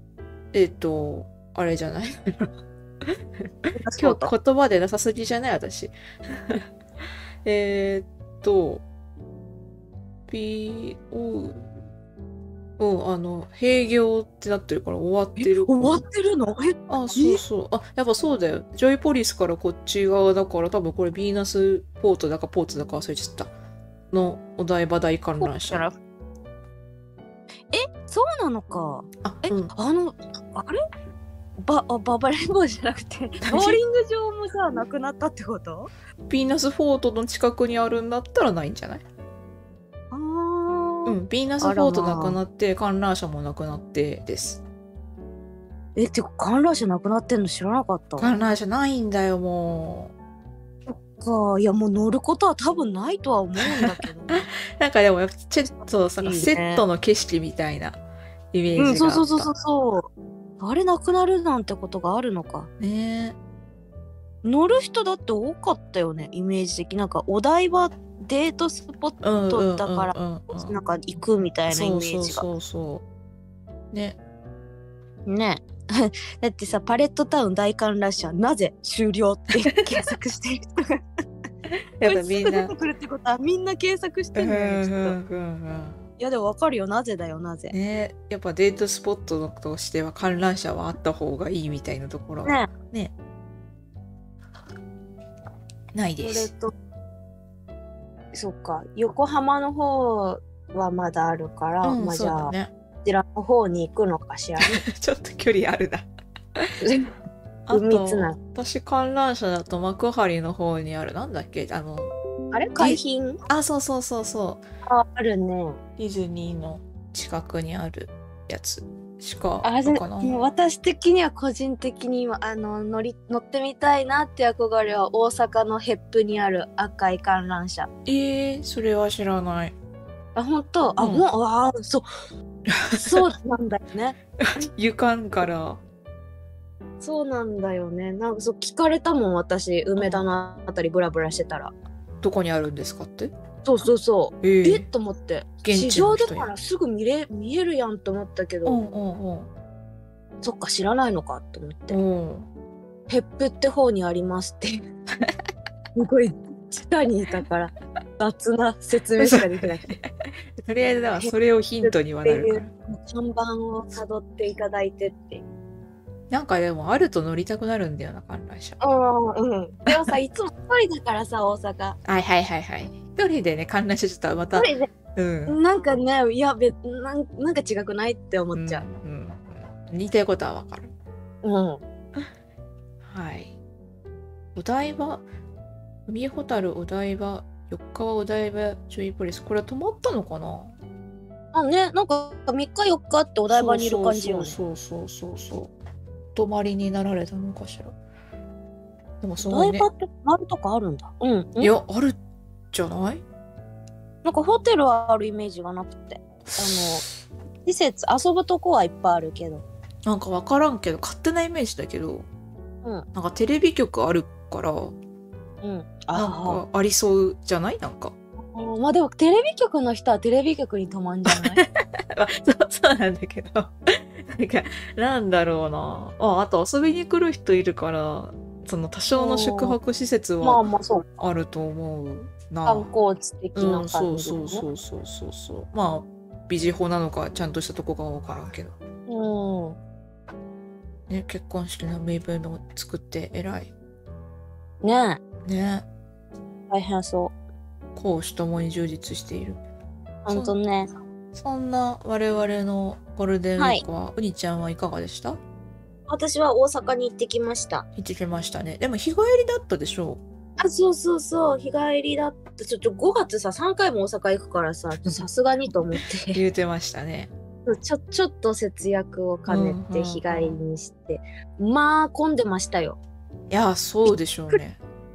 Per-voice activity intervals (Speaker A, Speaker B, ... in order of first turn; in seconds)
Speaker A: 0.5-2.5, 4.0-6.7, 7.4-8.8, 10.3-11.7, 12.8-16.0, 16.9-23.5, 24.1-25.9, 29.2-29.7, 33.5-33.8, 36.3-39.0, 41.1-44.6, 48.2-50.1, 53.6-58.0, 58.5-59.5, 62.8-63.4, 69.2-70.8, 71.7-73.0, 73.9-74.2, 82.0-82.7, 84.3-86.0, 87.7-93.1, 95.9-96.5, 101.8-102.7, 104.6-106.8, 107.7-112.1, 112.8-114.6, 116.0-120.4, 128.1-129.7, 131.0-131.2, 132.7-133.2, 134.4-135.8, 140.0-140.2, 142.2-143.3, 144.4-144.9, 145.6-146.5, 148.7-149.5, 151.9-152.5, 159.2-162.7, 166.3-168.8, 172.1-175.6, 178.6-180.9, 183.0-183.6, 184.6-185.3, 186.1-190.8, 193.5-195.7, 196.3-197.9, 199.2-199.9, 201.6-202.2, 202.7-203.2, 210.1-212.3, 213.1-214.9, 216.1-218.1, 221.3-230.6, 231.2-232.9, 233.6-238.8, 241.1-243.7, 245.4-245.9, 248.0-249.6, 251.3-255.4, 258.0-260.2, 266.3-267.3, 269.5-270.6, 273.5-274.8
Speaker B: 3.7-4.3, 15.4-17.4, 25.4-26.0, 27.7-30.8, 31.6-35.9, 40.1-42.4, 46.0-48.3, 50.9-54.5, 56.2-56.9, 58.8-60.1, 60.6-62.7, 64.4-72.5, 75.3-81.0, 82.0-85.2, 86.2-87.8, 92.5-92.7, 96.2-96.7, 98.3-102.5, 103.0-104.8, 106.8-107.1, 107.7-108.4, 112.5-113.4, 114.9-115.8, 119.6-127.9, 130.3-132.1, 132.9-134.2, 137.0-141.7, 143.6-148.8, 150.4-152.0, 153.1-154.9, 155.9-160.0, 161.2-165.4, 168.8-172.0, 174.6-174.9, 175.5-178.9, 181.4-181.8, 191.5-194.6, 199.4-201.7, 204.2-207.1, 207.7-209.7, 215.6-216.6, 218.5-221.6, 229.2-229.8, 230.4-231.1, 232.7-234.6, 239.1-239.8, 244.8-245.2, 246.7-247.3, 250.3-250.9, 253.6-253.8, 256.1-257.9, 260.6-266.4, 267.7-273.0